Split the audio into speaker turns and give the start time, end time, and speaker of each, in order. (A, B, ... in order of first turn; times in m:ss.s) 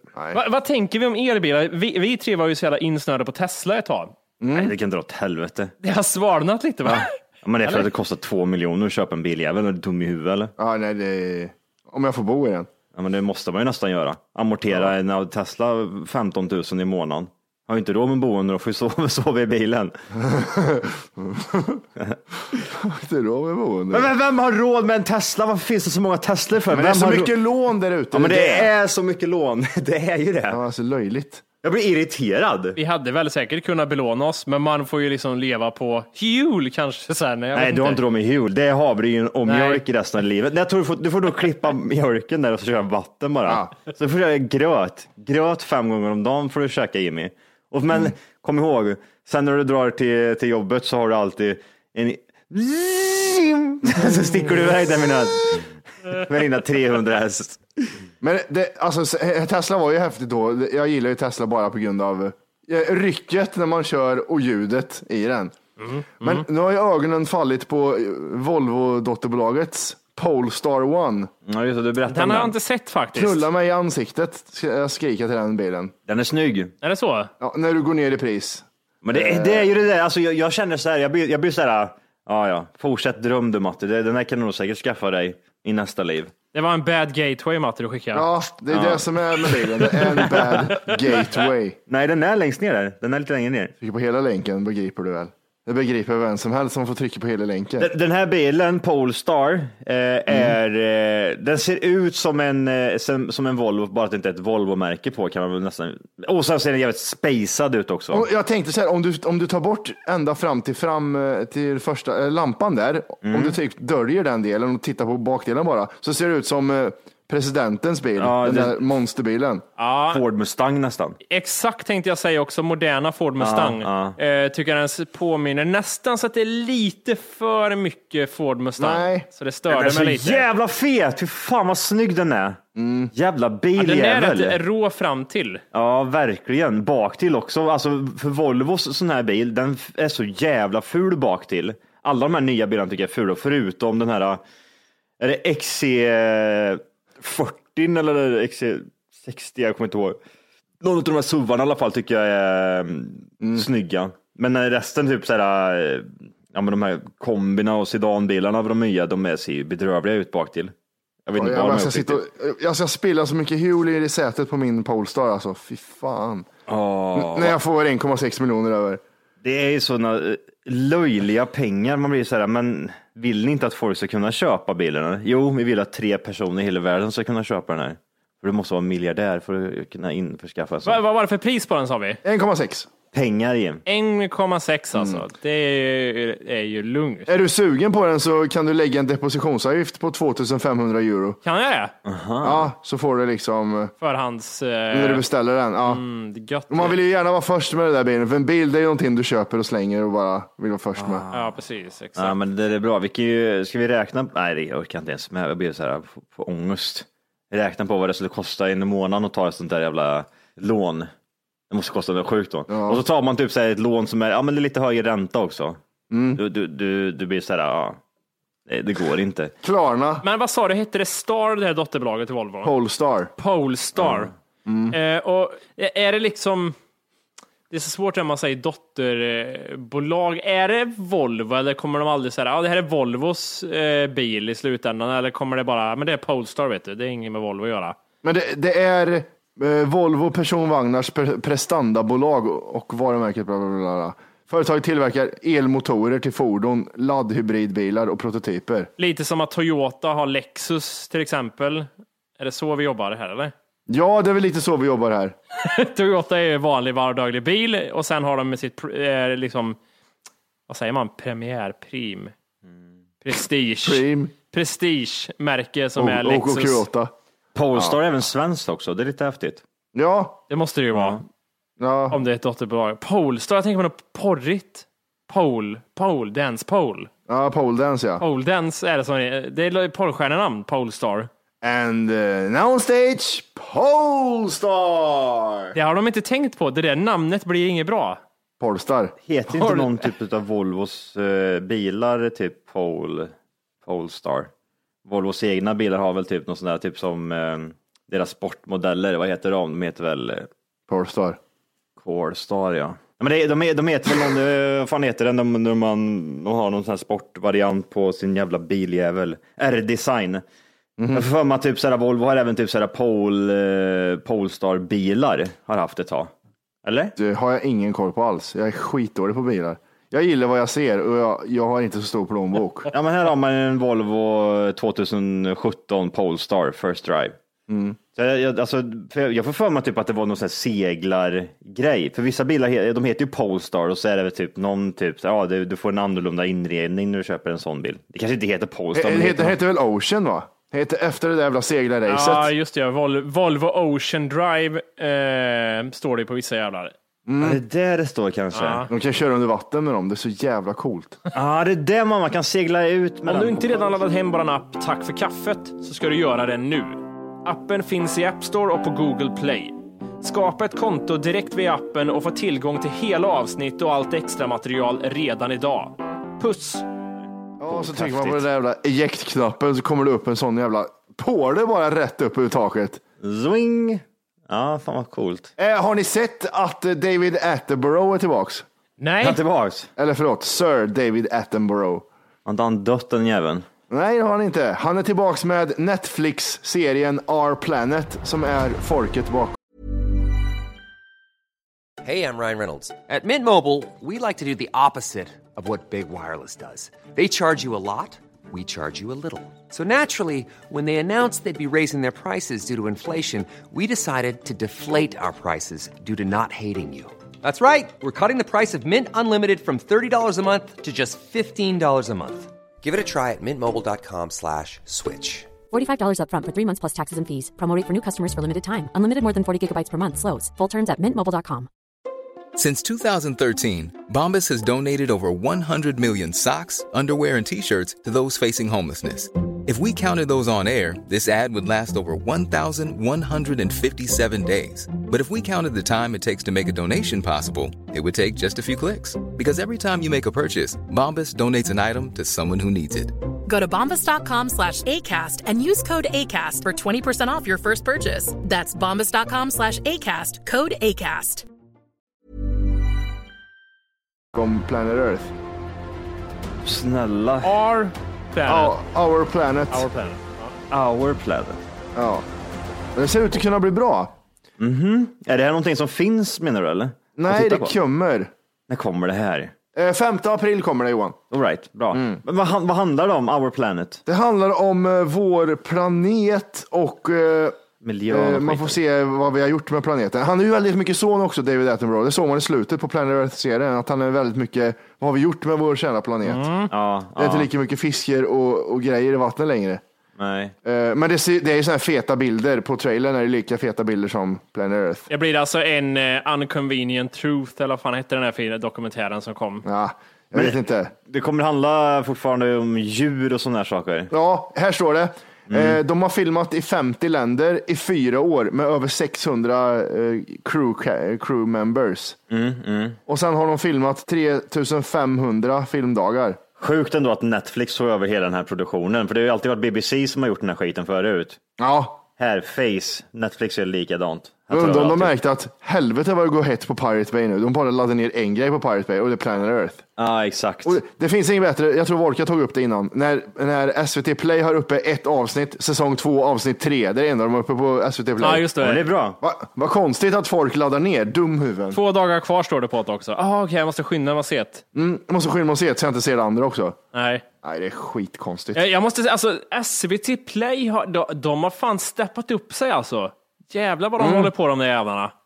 0:00.2-0:00.4 A
0:00.3-0:04.1 B
0:04.4-0:04.7 A
0:04.6-0:05.7 C
0:05.8-0:07.1 B
0:06.9-0:10.5 C
0:10.6-0:12.7 A
0:13.0-0:19.9 C
0:20.2-0:21.8 A
0:22.0-0:22.6 C
0:22.7-0:24.1 A
0:23.9-0:27.3 C
0:26.7-0:28.7 A
0:28.1-0:30.6 C
0:30.5-0:31.4 A
0:31.6-0:32.8 C
0:32.8-0:38.0 B
0:37.6-0:57.9 C
0:39.5-0:39.8 B
0:58.2-1:05.5 A
1:05.8-1:06.4 B
1:06.2-1:11.3 A
1:11.5-1:12.6 C
1:12.1-1:13.5 B
1:13.2-1:15.9 A
1:16.1-1:16.7 C
1:16.8-1:17.3 B
1:17.4-1:19.7 A
1:19.0-1:26.3 C
1:26.5-1:28.2 B
1:28.1-1:31.8 A
1:28.7-1:29.1 C
1:29.8-1:31.4 B
1:31.9-1:33.7 C
1:33.8-1:37.9 A
1:37.8-1:48.3 C
1:40.3-1:40.6 A
1:48.1-1:59.6 A
1:53.2-1:53.6 C
1:58.2-1:58.8 C
1:59.8-2:00.2 B
2:00.1-2:01.2 C
2:01.3-2:10.5 B
2:03.4-2:04.2 C
2:08.8-2:09.3 A
2:09.7-2:12.6 C
2:12.8-2:13.1 A
2:13.1-2:14.6 C
2:13.8-2:15.6 B
2:15.7-2:24.4 C
2:25.2-2:30.2 C
2:30.8-2:40.7 C
2:33.4-2:33.7 A
2:41.3-2:42.2 C
2:41.4-2:46.5 A
2:46.7-2:47.6 C
2:47.2-2:49.0 A
2:49.4-3:01.0 C
3:00.8-3:02.2 B
3:02.2-3:02.9 A
3:03.1-3:03.8 C
3:03.9-3:07.3 B
3:05.0-3:05.2 A
3:07.3-3:11.4 A
3:11.4-3:11.9 B
3:12.0-3:12.7 C
3:12.4-3:13.9 A
3:14.0-3:15.2 B
3:14.9-3:16.0 A
3:15.8-3:17.0 B
3:16.7-3:21.2 A
3:21.0-3:21.6 C
3:21.3-3:22.4 B
3:22.2-3:31.1 C
3:31.7-3:35.8 C
3:32.7-3:33.0 A
3:36.1-3:36.4 A
3:36.4-3:38.0 C
3:38.7-3:39.5 C
3:39.6-3:40.2 A
3:40.2-3:42.7 B
3:42.6-3:43.3 A
3:43.4-3:44.3 B
3:44.0-3:44.3 C
3:44.6-3:45.0 A
3:44.9-3:46.8 B
3:47.7-3:58.0 B
3:58.2-4:08.9 A
4:09.0-4:13.5 B
4:13.9-4:15.4 A
4:15.6-4:19.8 B
4:20.7-4:22.3 B
4:23.2-4:26.8 B
4:23.8-4:24.3 A
4:26.0-4:27.1 A
4:27.6-4:29.6 C
4:29.9-4:30.4 A
4:30.5-4:31.2 B
4:30.9-4:31.2 C
4:31.8-4:32.2 A
4:32.1-4:37.1 B
4:37.3-4:38.2 A
4:38.2-4:41.3 B
4:41.6-4:45.7 A
4:45.8-4:48.2 B
4:48.6-4:49.2 A
4:49.3-4:53.3 C
4:49.5-4:50.1 B
4:53.8-4:54.5 C
4:55.1-5:00.5 C
5:00.9-5:01.4 A
5:02.0-5:10.4 C
5:11.0-5:11.3 A
5:11.1-5:16.3 C
5:16.8-5:17.1 C
5:17.2-5:22.9 A
5:22.9-5:27.4 C
5:27.7-5:28.0 A
5:28.2-5:39.6 C
5:38.9-5:42.5 A
5:42.1-5:46.9 B
5:47.3-5:47.6 A
5:47.4-5:48.8 C
5:48.5-5:48.9 B
5:48.9-5:51.2 A
5:51.3-5:53.9 C
5:53.3-6:06.9 B
6:07.6-6:13.0 A
6:07.7-6:08.4 C
6:13.2-6:15.5 C
6:15.6-6:18.7 A
6:19.0-6:19.4 B
6:19.2-6:19.9 C
6:20.0-6:22.1 A
6:22.5-6:23.7 C
6:23.9-6:29.6 A
6:32.0-6:55.6 D
6:55.7-7:01.7 E
7:02.6-7:23.1 F
7:23.5-7:31.4 G
7:34.3-7:35.3 A
7:36.6-7:37.5 C
7:37.4-7:38.8 B
7:38.5-7:39.9 A
7:39.7-7:40.5 B
7:40.7-7:41.6 C
7:42.0-7:42.3 A
7:43.0-7:44.1 A
7:44.6-7:47.7 C
7:47.2-7:48.3 A
7:48.7-7:49.5 C
7:49.8-7:51.2 A
7:51.3-7:54.0 C
7:51.9-7:52.2 A
7:54.1-8:06.4 A
7:57.8-7:58.8 C
8:06.2-8:06.7 B
8:06.7-8:07.5 C
8:07.2-8:09.8 A
8:10.2-8:10.5 C
8:10.6-8:15.1 A
8:15.1-8:19.6 B
8:19.6-8:20.9 A
8:20.3-8:24.1 C
8:24.1-8:32.2 A
8:25.5-8:25.8 C
8:32.3-8:33.0 C
8:33.1-8:36.4 A
8:36.6-8:41.4 C
8:41.6-8:42.0 A
8:42.2-8:45.1 C
8:44.5-8:49.9 A
8:50.0-8:50.8 C
8:50.6-8:58.5 A
8:58.2-8:58.9 B
8:58.6-8:59.2 C
8:59.2-9:01.8 A
9:01.7-9:04.6 B
9:04.8-9:06.8 A
9:06.9-9:07.2 B
9:07.4-9:08.6 A
9:08.6-9:15.1 B